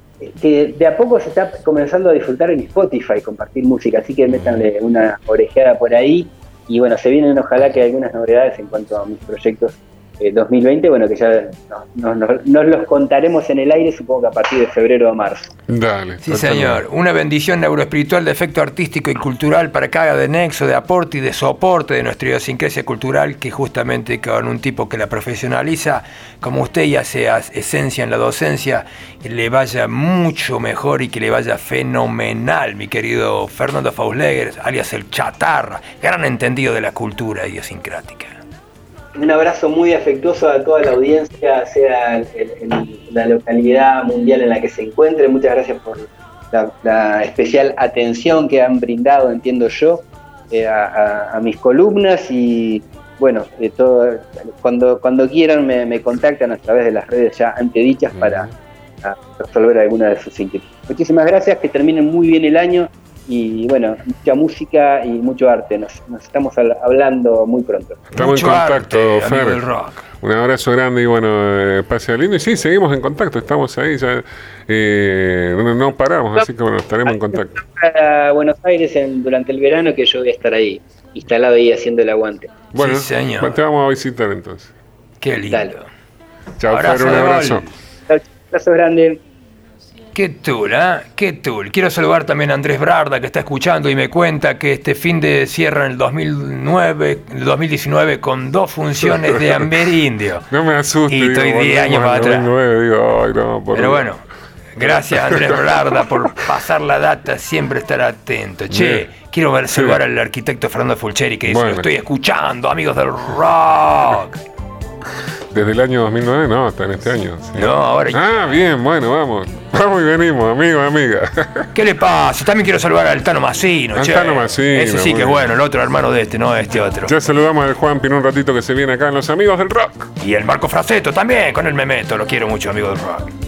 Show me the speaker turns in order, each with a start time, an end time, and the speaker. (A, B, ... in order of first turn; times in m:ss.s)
0:00.2-0:15.5 A
0:04.3-0:04.6 B
0:15.7-0:16.8 B
0:16.2-0:38.4 C
0:39.1-0:58.5 A
0:58.1-0:58.5 B
0:59.0-1:08.1 A
1:08.1-1:09.6 B
1:08.1-1:10.0 C
1:10.2-1:17.5 B
1:17.0-1:22.6 A
1:22.7-1:24.7 B
1:22.8-1:23.5 C
1:25.2-1:25.8 C
1:25.5-1:25.7 A
1:26.6-1:27.6 B
1:26.7-1:27.7 C
1:26.8-1:27.6 A
1:28.1-1:29.2 A
1:30.1-1:40.5 C
1:39.0-1:39.7 B
1:40.5-1:44.1 B
1:41.1-1:42.5 C
1:43.7-1:44.2 C
1:44.7-1:54.4 C
1:44.8-1:46.0 B
1:48.7-1:49.1 B
1:49.7-1:50.0 B
1:51.4-1:51.9 B
1:55.5-2:01.7 B
1:57.6-1:58.2 C
2:01.7-2:07.1 C
2:03.9-2:05.5 B
2:07.0-2:10.1 B
2:10.2-2:13.3 C